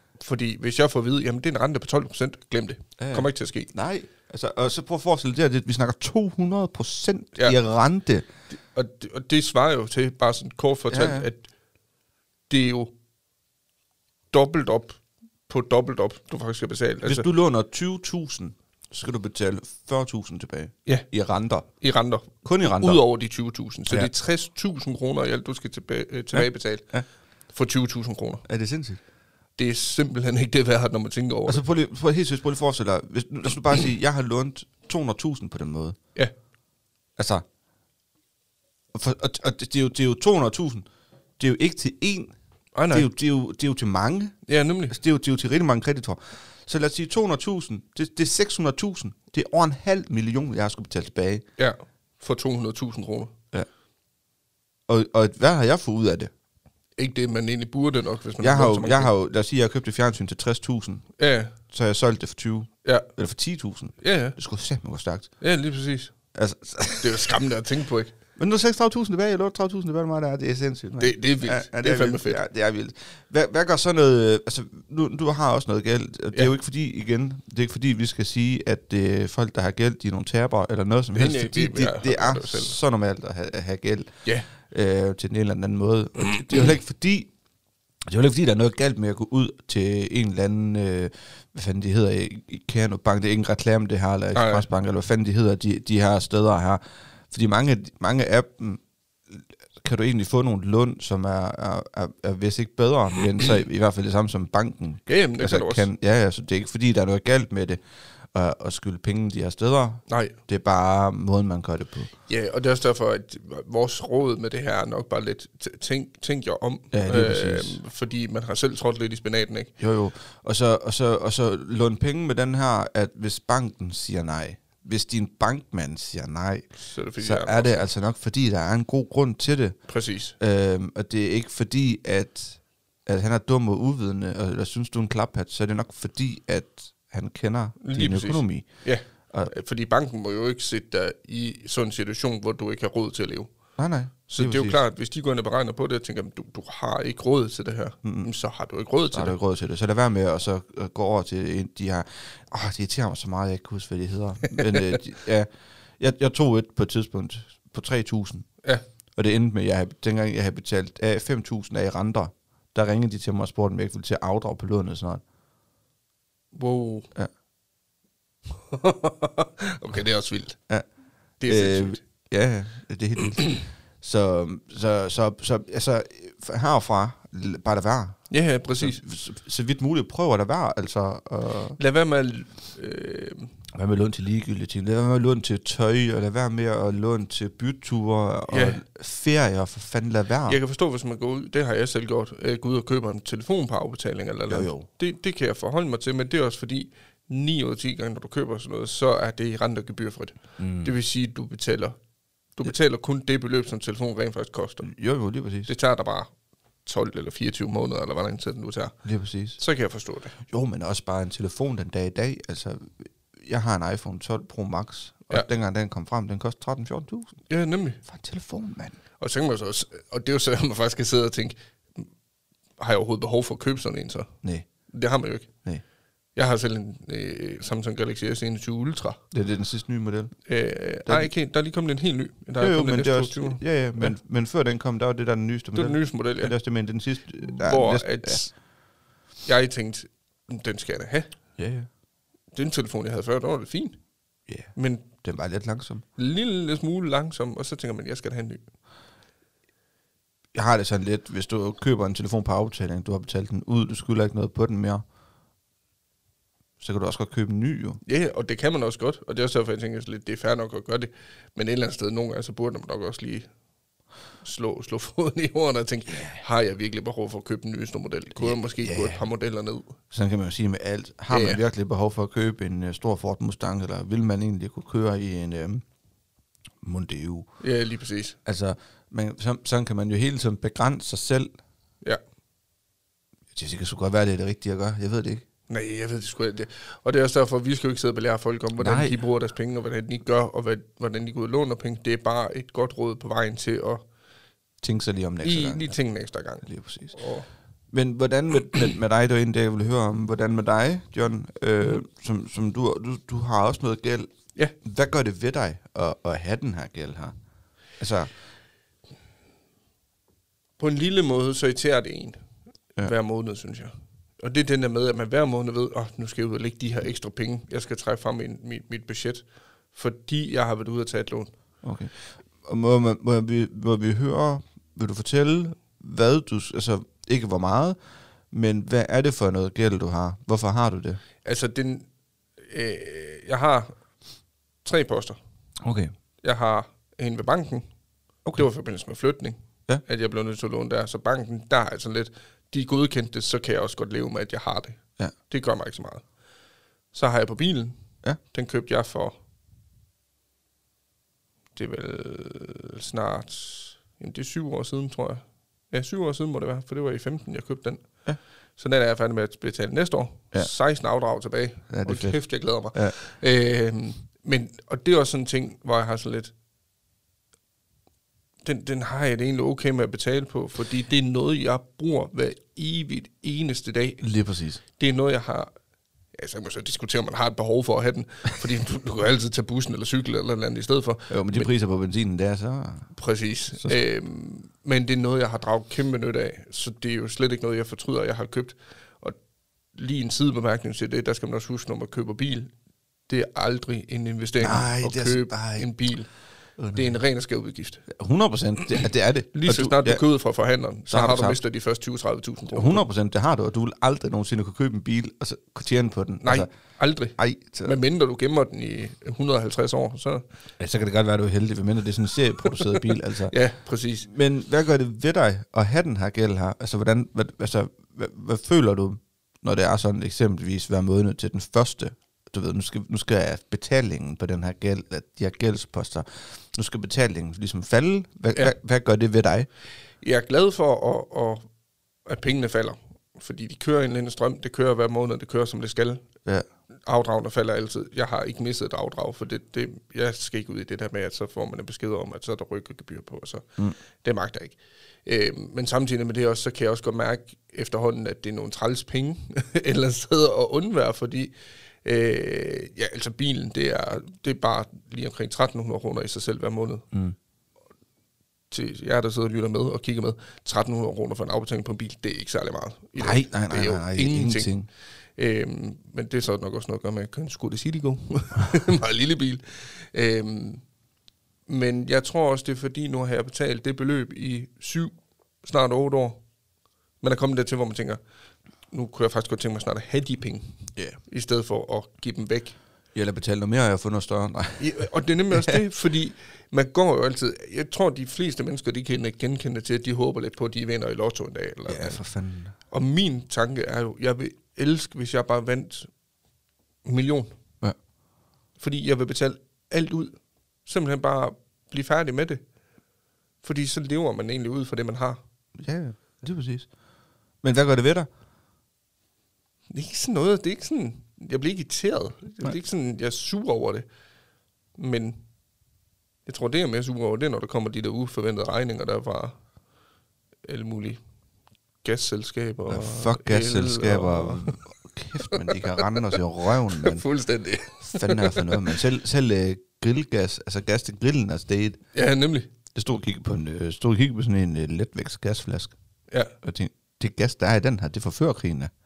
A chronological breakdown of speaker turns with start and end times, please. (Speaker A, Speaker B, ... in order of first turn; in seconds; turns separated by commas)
Speaker A: 0.2-3.7, Speaker B: 3.0-8.2, Speaker A: 8.6-11.5, Speaker B: 10.9-11.3, Speaker A: 12.5-12.9, Speaker A: 14.3-17.3, Speaker B: 17.0-21.7, Speaker A: 21.8-26.9, Speaker B: 22.4-23.0, Speaker B: 26.3-27.1, Speaker A: 27.5-28.4, Speaker B: 28.5-29.0, Speaker A: 29.6-31.6, Speaker B: 31.5-36.0, Speaker B: 37.2-37.4, Speaker B: 38.9-40.9, Speaker B: 41.4-42.4, Speaker A: 42.8-43.1, Speaker B: 42.9-44.4, Speaker A: 44.5-45.0, Speaker B: 44.9-51.5, Speaker A: 51.6-53.3, Speaker B: 54.9-56.3, Speaker A: 57.0-59.1, Speaker B: 58.4-61.1, Speaker A: 61.2-61.5, Speaker B: 61.6-65.3, Speaker A: 64.0-64.4, Speaker A: 65.4-66.1, Speaker B: 66.3-67.4, Speaker A: 67.0-68.2, Speaker B: 68.4-87.3, Speaker A: 71.0-72.4, Speaker A: 81.1-82.8, Speaker B: 88.1-107.8, Speaker A: 94.3-94.7, Speaker A: 105.1-105.9, Speaker B: 108.3-112.1, Speaker A: 110.1-110.3, Speaker A: 112.3-119.7, Speaker B: 116.9-117.8, Speaker B: 119.8-126.7, Speaker A: 126.8-127.9, Speaker B: 127.2-129.8, Speaker A: 129.9-130.3, Speaker B: 130.4-138.7, Speaker A: 137.8-143.5, Speaker B: 143.8-144.8, Speaker A: 144.3-149.4, Speaker B: 148.0-148.3, Speaker B: 149.1-158.5, Speaker A: 154.5-155.0, Speaker B: 159.2-165.2, Speaker A: 166.5-167.1, Speaker A: 168.6-170.6, Speaker A: 171.4-172.0, Speaker B: 171.5-178.2, Speaker A: 178.3-179.0, Speaker B: 178.8-181.8, Speaker A: 181.8-183.5, Speaker B: 183.7-190.6, Speaker A: 188.5-188.8, Speaker A: 190.5-202.0, Speaker B: 194.5-194.9, Speaker B: 200.6-200.9, Speaker A: 202.6-204.9, Speaker B: 204.8-205.7, Speaker A: 205.7-206.3, Speaker A: 206.8-209.0, Speaker B: 209.0-209.6, Speaker A: 209.6-210.4, Speaker B: 210.5-217.3, Speaker A: 217.5-218.0, Speaker B: 218.1-219.0, Speaker A: 219.2-222.1, Speaker A: 222.8-224.3, Speaker A: 224.9-225.5, Speaker A: 226.4-229.2, Speaker B: 229.3-230.3, Speaker A: 230.5-234.1, Speaker B: 231.1-231.3, Speaker B: 232.6-238.4, Speaker A: 235.8-236.5, Speaker A: 237.4-238.5, Speaker A: 239.4-241.3, Speaker B: 241.6-241.9, Speaker A: 242.5-244.0, Speaker B: 244.5-246.0, Speaker A: 244.8-245.1, Speaker A: 246.2-248.6, Speaker B: 250.5-255.0, Speaker B: 256.8-258.0, Speaker A: 258.1-263.5, Speaker A: 264.4-269.9, Speaker B: 268.4-269.2, Speaker B: 270.1-275.8, Speaker A: 271.3-271.6, Speaker B: 276.8-277.5, Speaker A: 277.6-278.4, Speaker B: 278.5-281.5, Speaker B: 283.5-285.4, Speaker A: 285.7-294.1, Speaker B: 288.8-289.1, Speaker B: 294.8-295.9, Speaker A: 295.4-297.5, Speaker B: 296.6-297.2, Speaker B: 297.9-307.3, Speaker B: 308.0-308.3, Speaker A: 310.8-312.4, Speaker A: 313.0-321.5, Speaker B: 321.8-328.0, Speaker B: 328.5-331.2, Speaker A: 331.4-332.1, Speaker A: 332.7-334.0, Speaker A: 334.8-335.4, Speaker B: 335.8-336.1, Speaker A: 336.4-337.9, Speaker A: 338.6-346.3, Speaker A: 347.1-348.0, Speaker A: 348.5-349.4, Speaker A: 351.8-358.0, Speaker A: 358.8-366.5, Speaker B: 361.9-362.4, Speaker A: 368.6-374.2, Speaker B: 374.2-374.8, Speaker A: 375.0-375.7, Speaker A: 376.3-381.7, Speaker B: 381.3-383.1, Speaker A: 383.1-389.4, Speaker A: 389.9-392.7, Speaker A: 393.3-396.3, Speaker B: 394.6-395.9, Speaker B: 396.8-397.2, Speaker A: 396.9-398.1, Speaker B: 398.1-400.2, Speaker A: 399.5-403.0, Speaker B: 401.1-401.6, Speaker B: 402.7-406.7, Speaker A: 406.4-410.5, Speaker B: 407.4-407.9, Speaker B: 410.8-413.5, Speaker A: 413.5-414.3, Speaker B: 414.2-429.7, Speaker A: 430.2-431.7, Speaker A: 432.3-436.2, Speaker A: 437.1-443.7, Speaker A: 444.2-457.0, Speaker A: 458.7-464.7, Speaker B: 463.2-464.9, Speaker A: 465.4-470.8, Speaker A: 471.7-475.1, Speaker A: 475.6-476.4, Speaker A: 477.2-478.2, Speaker A: 478.9-482.8, Speaker B: 483.1-485.8, Speaker A: 484.8-492.2, Speaker B: 491.9-492.7, Speaker A: 492.9-496.1, Speaker A: 497.1-497.6, Speaker A: 498.8-502.6, Speaker A: 503.6-505.4, Speaker B: 505.8-506.9, Speaker B: 507.6-508.3, Speaker A: 509.9-514.1, Speaker A: 515.0-515.4, Speaker A: 516.5-519.6, Speaker A: 520.6-521.2, Speaker A: 522.0-524.8, Speaker B: 522.9-527.2, Speaker A: 525.4-529.0, Speaker B: 528.0-532.0, Speaker A: 532.1-532.7, Speaker B: 533.0-536.0, Speaker B: 536.6-538.9